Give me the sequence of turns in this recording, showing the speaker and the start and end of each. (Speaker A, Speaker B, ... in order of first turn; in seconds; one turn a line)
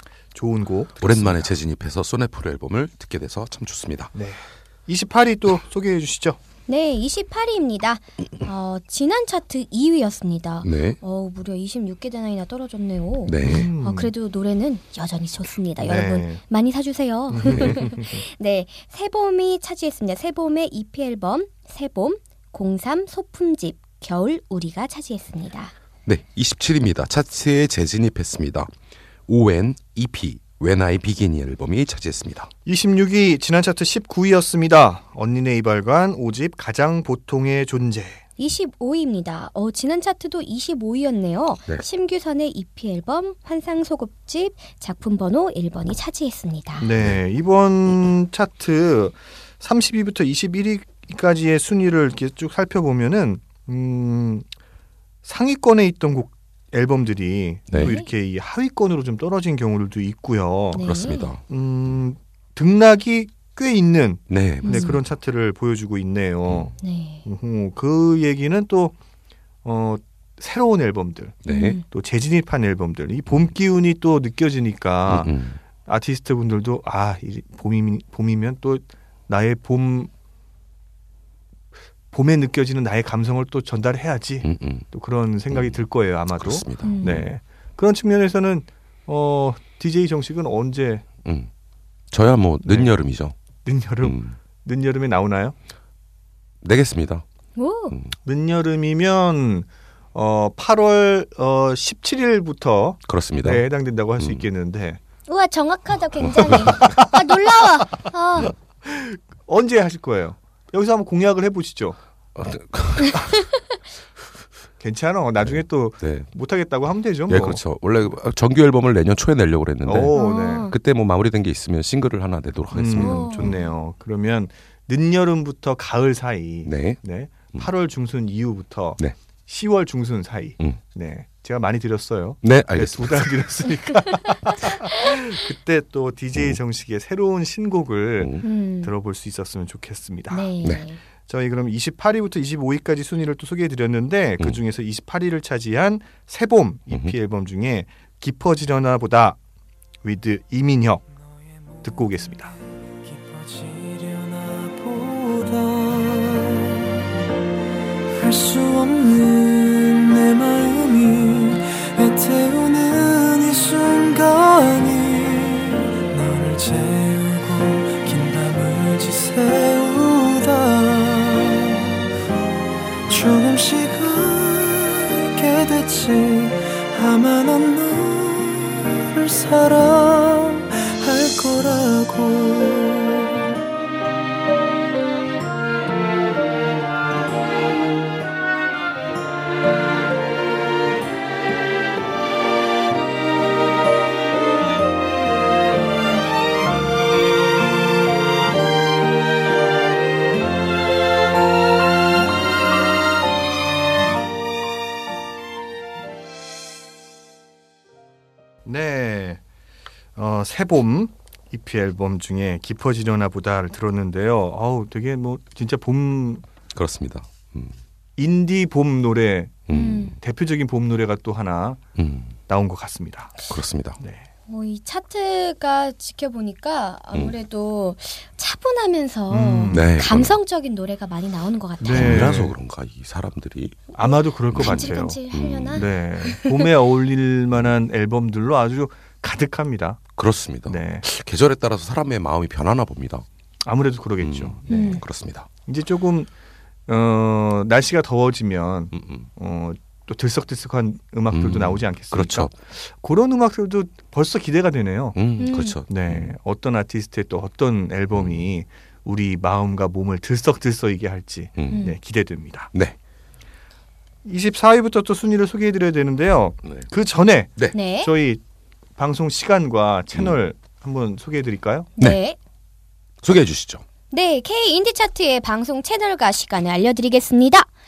Speaker A: 0.3-1.5
Speaker B: 1.0-4.1
Speaker A: 4.1-6.4
Speaker C: 6.7-25.7
Speaker B: 10.6-11.0
Speaker B: 13.3-13.7
Speaker A: 13.4-14.1
Speaker A: 15.8-16.4
Speaker A: 17.3-18.2
Speaker B: 26.1-28.7
Speaker B: 29.3-32.5
Speaker A: 32.6-38.2
Speaker C: 38.4-46.9
Speaker A: 46.8-54.5
Speaker A: 55.2-60.9
Speaker C: 57.7-58.1
Speaker C: 60.7-61.3
Speaker B: 60.8-61.4
Speaker A: 61.5-69.0
Speaker B: 64.3-65.0
Speaker C: 64.6-65.0
Speaker C: 66.8-67.2
Speaker A: 69.6-80.1
Speaker B: 71.5-71.8
Speaker C: 71.5-71.8
Speaker B: 75.1-75.6
Speaker A: 82.1-91.1
Speaker B: 84.4-84.9
Speaker B: 85.5-85.8
Speaker B: 86.3-87.3
Speaker C: 86.8-87.1
Speaker B: 91.2-91.5
Speaker B: 92.1-93.3
Speaker A: 92.6-92.9
Speaker A: 93.7-95.5
Speaker B: 94.0-94.4
Speaker B: 96.6-97.2
Speaker C: 97.6-98.0
Speaker A: 98.2-105.0
Speaker B: 103.1-103.7
Speaker B: 104.2-104.5
Speaker C: 105.3-108.5
Speaker B: 106.3-106.9
Speaker A: 106.5-107.1
Speaker A: 108.8-112.0
Speaker B: 112.3-113.4
Speaker A: 114.8-117.6
Speaker B: 115.4-116.3
Speaker B: 117.3-123.6
Speaker A: 119.9-120.7
Speaker C: 120.2-120.8
Speaker A: 122.7-140.5
Speaker C: 123.0-123.7
Speaker B: 126.7-127.0
Speaker B: 132.4-133.5
Speaker B: 136.3-136.6
Speaker C: 138.4-138.9
Speaker C: 140.3-141.0
Speaker A: 141.3-149.4
Speaker B: 146.9-147.2
Speaker A: 150.0-151.1
Speaker A: 151.8-152.5
Speaker D: 153.1-156.9
Speaker D: 158.1-172.0
Speaker D: 173.1-183.5
Speaker A: 208.7-209.4
Speaker A: 210.2-216.4
Speaker B: 216.7-217.8
Speaker A: 218.2-221.8
Speaker B: 219.7-220.2
Speaker C: 219.7-220.2
Speaker B: 222.0-222.3
Speaker A: 222.5-223.4
Speaker B: 223.5-224.0
Speaker A: 224.0-224.3
Speaker C: 224.5-232.3
Speaker A: 229.3-229.9
Speaker B: 229.7-230.4
Speaker A: 231.8-232.6
Speaker B: 231.8-233.9
Speaker A: 233.9-235.2
Speaker C: 234.0-236.6
Speaker B: 234.5-235.9
Speaker A: 235.7-240.0
Speaker B: 240.2-243.2
Speaker A: 240.7-241.0
Speaker A: 243.7-245.0
Speaker B: 244.2-245.5
Speaker C: 244.7-245.0
Speaker A: 245.7-246.3
Speaker A: 246.9-255.2
Speaker B: 248.9-249.3
Speaker B: 251.3-252.5
Speaker B: 255.2-256.4
Speaker C: 255.4-255.8
Speaker A: 255.9-262.7
Speaker B: 258.1-258.4
Speaker B: 261.6-261.8
Speaker C: 261.7-262.0
Speaker A: 264.2-268.4
Speaker C: 267.7-268.1
Speaker A: 269.0-271.9
Speaker C: 272.0-272.4
Speaker B: 273.2-273.8
Speaker C: 274.1-277.7